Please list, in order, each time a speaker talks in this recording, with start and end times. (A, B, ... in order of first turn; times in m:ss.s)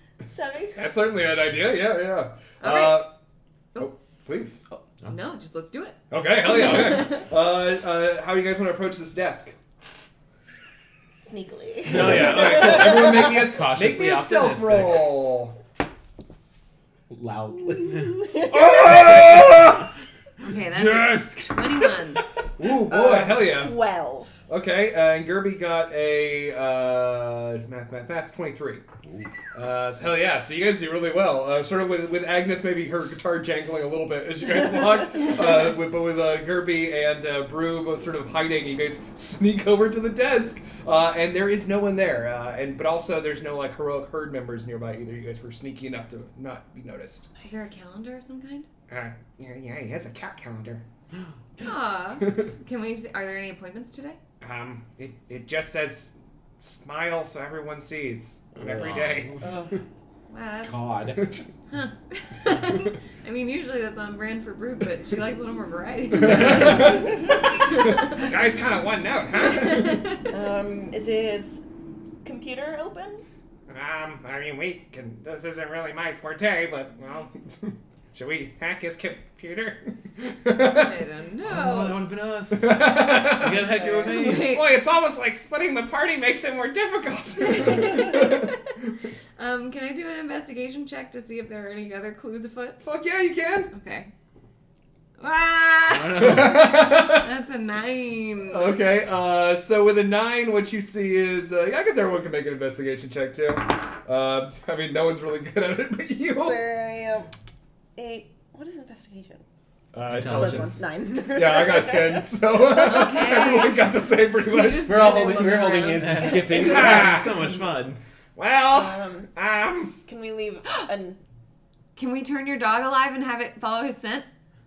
0:00.2-0:00.8 A
0:00.8-0:03.1 B
0:02.6-0:03.1 C
0:03.8-0:04.6 B
0:05.1-0:06.0 C
0:06.1-0:09.5 B
0:06.6-0:07.2 C
0:11.1-0:13.4 A
0:11.9-0:15.6 B
0:11.9-0:15.2 D
0:17.1-0:18.1 E
0:17.6-0:19.2 A
0:18.5-0:19.8 B
0:20.4-0:22.2 C
0:22.6-0:23.8 B
0:22.8-0:24.4 A
0:24.5-0:28.8 B
0:29.5-0:47.3 B
0:47.4-0:48.7 C
0:48.9-0:50.8 B
0:51.6-0:54.2 C
0:54.4-0:59.4 B
0:58.6-0:59.4 D
0:59.4-0:59.8 A
1:00.3-1:00.9 C
1:00.6-1:01.3 E
1:01.2-1:01.4 B
1:01.7-1:07.2 C
1:06.2-1:07.2 B
1:07.7-1:08.2 C
1:08.0-1:10.0 B
1:09.6-1:10.3 C
1:10.3-1:11.6 A
1:12.2-1:13.2 A
1:13.7-1:20.9 B
1:20.6-1:22.0 C
1:21.4-1:24.6 D
1:22.5-1:28.5 B
1:23.5-1:24.7 C
1:27.4-1:28.6 C
1:29.4-1:32.8 C
1:32.8-1:33.7 B
1:33.7-1:34.1 C
1:35.2-1:38.8 C
1:35.9-1:36.8 D
1:36.2-1:37.3 B
1:38.5-1:46.6 B
1:46.4-1:47.3 A
1:48.0-1:49.4 A
1:49.9-1:55.2 B
1:50.1-1:50.8 E
1:50.1-1:53.7 A
1:52.7-1:53.8 C
1:54.5-1:56.6 C
1:54.9-1:57.3 E
1:55.9-1:58.0 D
1:56.5-1:57.4 B
1:58.4-2:00.0 B
1:58.7-1:59.3 A
2:00.0-2:01.2 A
2:02.0-2:04.3 C